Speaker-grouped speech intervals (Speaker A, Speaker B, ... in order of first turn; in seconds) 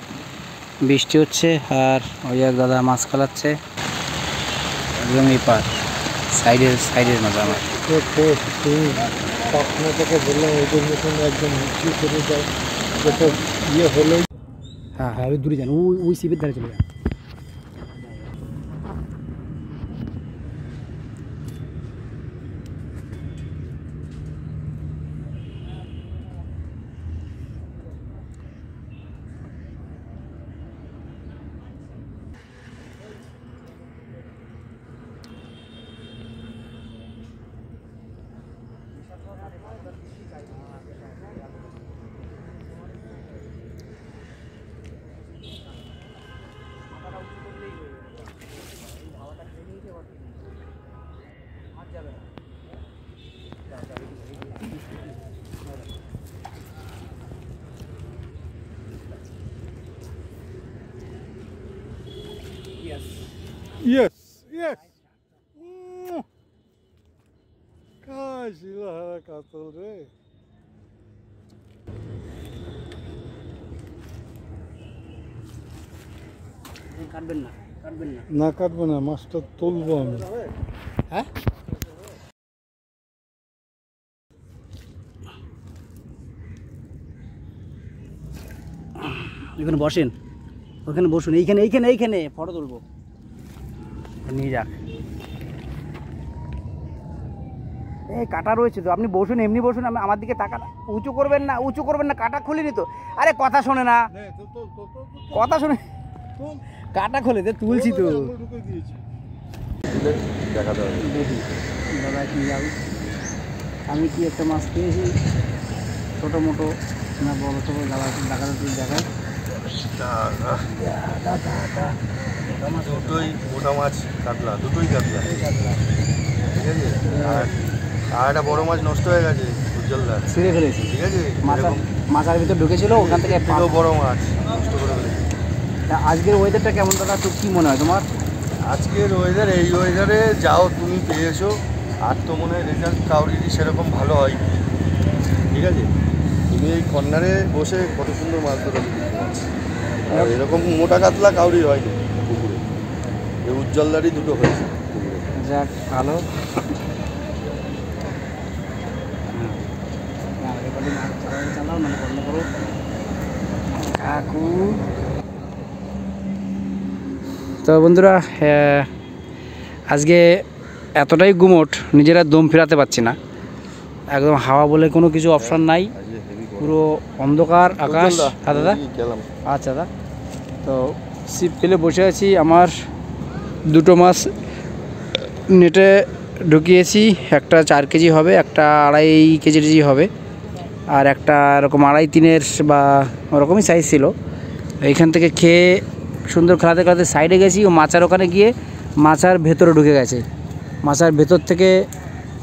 Speaker A: 0.8-3.6, 4.9-5.7, 6.3-7.7, 15.0-16.8, 76.9-78.3, 89.0-90.1, 90.8-92.8, 94.2-94.8, 98.1-104.1, 105.3-105.8, 106.9-108.4, 111.0-112.8, 113.9-115.2, 116.2-119.1, 120.7-122.0, 122.6-123.3, 125.4-125.7, 127.1-127.5, 130.3-133.8, 135.9-138.1, 155.3-156.2, 159.3-159.6, 160.4-162.4, 163.8-164.8, 167.6-168.9, 169.9-170.4, 170.9-173.2, 174.1-175.9, 176.6-178.8, 179.4-179.9, 180.6-182.7, 183.7-184.3, 185.5-190.1, 190.9-194.1, 194.8-200.2, 200.8-201.8
Speaker B: 7.8-14.3, 63.8-64.8, 65.6-66.2, 68.0-70.1, 78.3-80.4, 104.3-105.2, 108.0-109.0
Speaker C: 109.9-111.1, 120.0-120.7, 122.8-125.3, 126.5-127.5, 128.1-130.3, 130.9-131.8, 132.9-135.3, 138.6-144.6, 145.5-145.9, 146.5-149.4, 150.1-152.7, 153.4-155.3, 175.5-176.8, 177.8-179.2